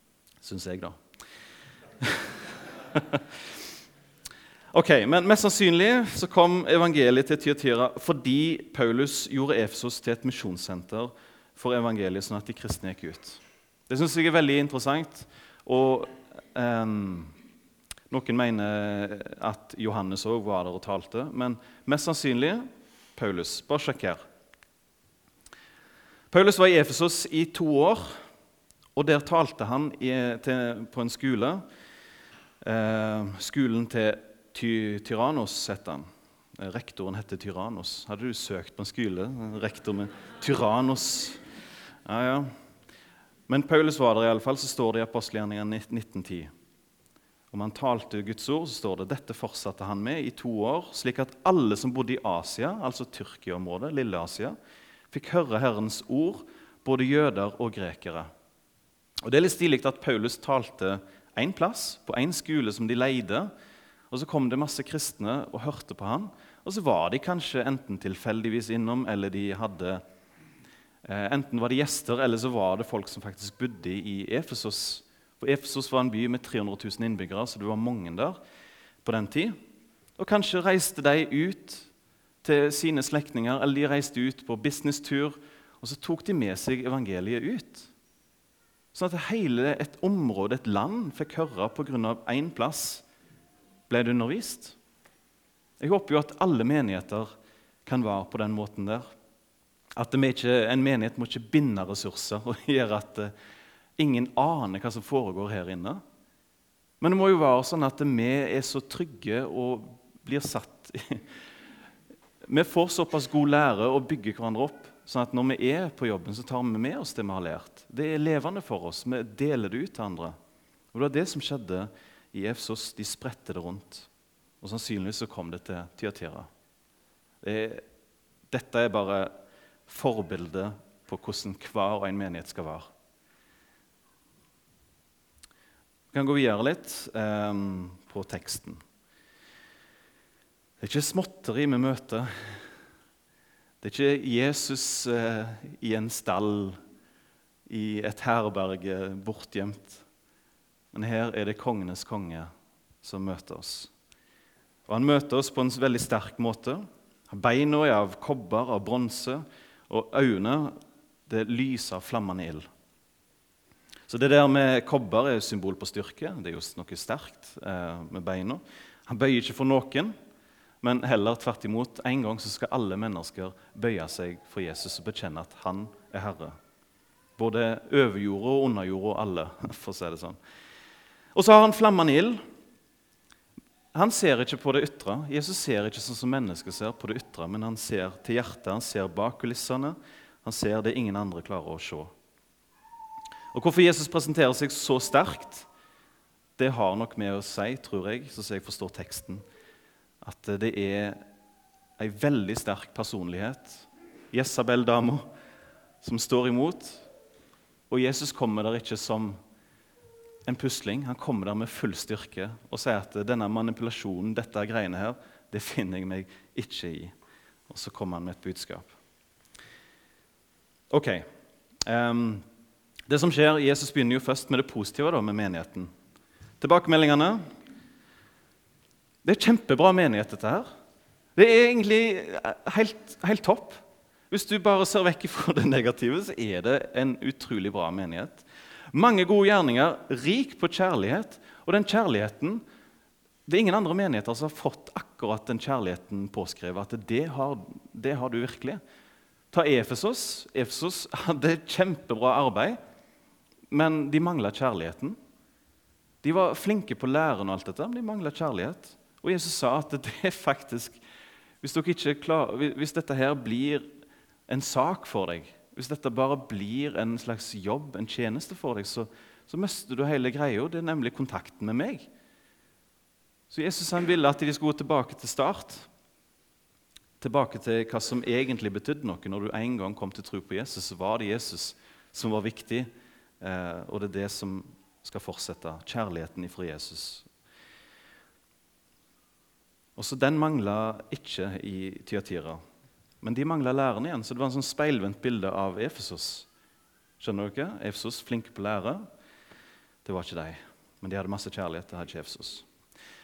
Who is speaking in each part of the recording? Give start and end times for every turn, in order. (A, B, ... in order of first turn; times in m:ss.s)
0:00.4-0:01.0 A
0:02.0-0:02.4 A
0:02.9-0:03.2 A
0:04.7-0:17.3 A
0:18.1-0:22.6 A
0:23.2-0:24.2 A
0:26.3-0:28.2 A
0:29.0-0:31.6 A
0:32.6-0:41.4 A
0:42.0-0:42.5 A
0:43.5-0:46.5 A
0:47.5-0:54.5 A
0:55.1-0:58.3 A
0:59.2-1:03.5 A
1:04.1-1:10.0 A
1:11.0-1:18.4 A
1:19.0-1:19.6 A
1:20.2-1:21.9 A
1:22.4-1:27.9 A
1:28.9-1:33.0 A
1:33.9-1:34.8 A
1:35.8-1:37.3 A
1:37.8-1:39.0 A
1:40.0-1:43.3 A
1:44.0-1:46.0 A
1:47.0-1:51.2 A
1:52.4-2:00.3 A
2:00.9-2:04.1 A
2:04.6-2:06.5 A
2:07.4-2:07.8 A
2:08.5-2:09.3 A
2:09.9-2:12.9 A
2:16.1-2:18.8 A
2:20.8-2:22.6 A
2:23.8-2:26.8 A
2:27.7-2:30.0 A
2:30.9-2:32.5 A
2:33.0-2:33.9 A
2:34.9-2:40.8 A
2:41.3-2:42.7 A
2:44.1-2:50.1 A
2:50.8-2:56.6 A
2:57.4-3:00.4 A
3:01.3-3:02.4 A
3:03.9-3:12.1 A
3:13.5-3:15.7 A
3:16.6-3:19.4 A
3:20.2-3:21.2 A
3:22.0-3:25.2 A
3:26.0-3:27.1 A
3:27.9-3:29.4 A
3:30.5-3:37.1 A
3:37.7-3:38.9 A
3:40.9-3:41.3 A
3:41.8-3:42.4 A
3:43.1-3:45.9 A
3:46.6-3:47.4 A
3:49.2-3:50.7 A
3:51.4-4:02.6 A
4:03.5-4:08.8 A
4:09.5-4:12.8 A
4:13.7-4:15.2 A
4:16.2-4:21.0 A
4:21.6-4:23.9 A
4:24.5-4:32.1 A
4:33.5-4:35.9 A
4:37.2-4:47.3 A
4:50.0-4:52.6 A
4:53.2-4:56.5 A
4:57.2-4:59.0 A
5:00.0-5:02.6 A